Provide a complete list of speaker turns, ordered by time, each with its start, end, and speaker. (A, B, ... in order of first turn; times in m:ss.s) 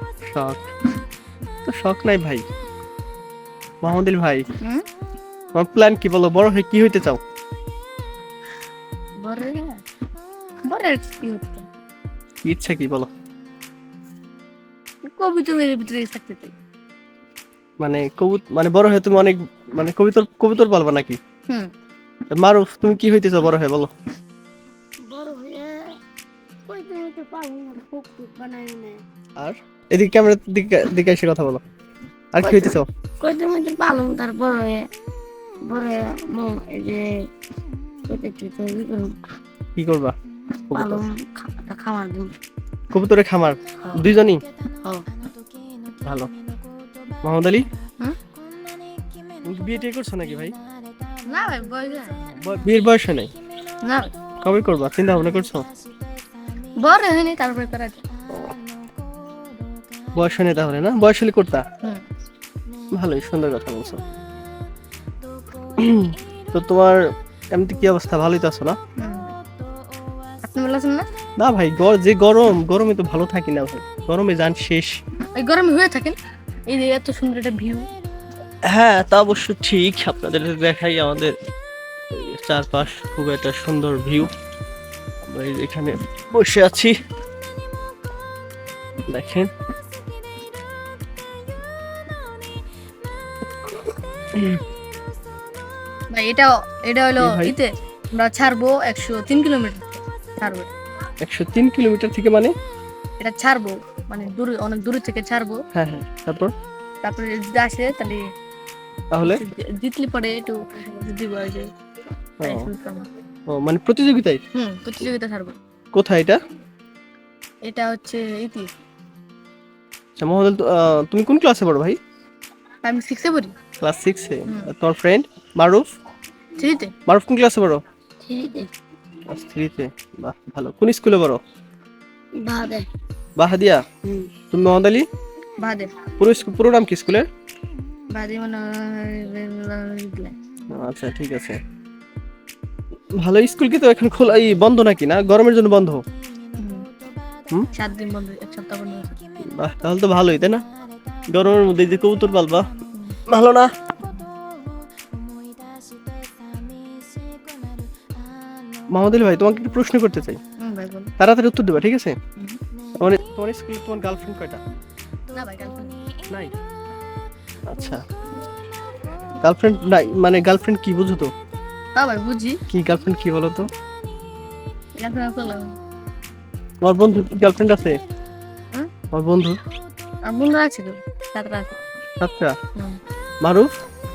0:00.3-0:00.6 A
0:01.6-0:02.4 A
0:03.8-0:04.4 A
0:05.5-0:07.2 A
0:09.2-0:09.8 B
0:10.6-0:11.6 B
0:12.4-0:13.1 A
0:15.0-0:16.5 B
0:17.8-0:21.2 A
0:22.3-0:23.9 A
0:25.0-0:25.8 C
0:26.7-0:29.0 C
0:29.4-0:31.6 A
0:32.3-0:32.8 A
0:32.4-0:34.9 C
0:35.7-0:37.1 C
0:38.1-0:39.2 C
0:39.8-0:40.1 A
0:40.7-0:41.0 A
0:40.7-0:42.3 C
0:42.9-0:44.4 A
0:47.2-0:47.7 A
0:49.4-0:50.5 A
0:51.3-0:52.2 B
0:52.3-0:53.3 A
0:53.8-0:54.1 B
0:54.4-0:55.6 A
0:56.8-0:58.0 B
1:00.2-1:01.6 A
1:03.0-1:04.0 A
1:05.8-1:07.0 A
1:07.5-1:08.8 A
1:09.0-1:09.3 B
1:10.4-1:11.0 B
1:11.4-1:15.0 A
1:15.4-1:17.9 B
1:18.7-1:21.3 A
1:22.1-1:24.3 A
1:25.2-1:26.9 A
1:29.1-1:29.5 A
1:36.1-1:40.7 B
1:37.2-1:37.5 A
1:41.2-1:42.5 A
1:43.2-1:45.6 B
1:45.7-1:46.5 A
1:47.0-1:48.2 B
1:49.1-1:49.4 A
1:49.2-1:51.7 B
1:52.4-1:52.7 A
1:52.4-1:53.1 B
1:53.5-1:54.4 A
1:54.5-1:55.5 B
1:55.9-1:56.4 A
1:57.6-1:58.7 B
2:00.2-2:02.0 A
2:02.8-2:03.5 B
2:03.8-2:05.8 A
2:06.6-2:06.9 B
2:07.1-2:07.8 A
2:08.2-2:08.7 C
2:09.3-2:11.4 A
2:12.4-2:12.8 C
2:13.4-2:13.8 A
2:14.5-2:15.1 A
2:15.6-2:15.9 B
2:16.2-2:17.2 A
2:18.1-2:20.3 B
2:20.7-2:21.6 A
2:23.2-2:26.0 A
2:26.6-2:26.9 B
2:27.7-2:29.2 B
2:29.6-2:30.6 A
2:31.3-2:32.6 A
2:33.3-2:33.7 A
2:38.9-2:40.4 A
2:40.6-2:41.1 B
2:41.2-2:42.2 A
2:43.0-2:44.6 A
2:45.3-2:46.0 B
2:46.3-2:46.5 A
2:47.7-2:48.0 A
2:49.4-2:51.3 A
2:52.0-2:52.6 B
2:52.7-2:53.7 A
2:55.0-2:55.7 B
2:56.8-2:58.0 A
2:59.1-2:59.6 A
3:00.3-3:01.8 B
3:02.2-3:02.5 A
3:03.4-3:03.7 A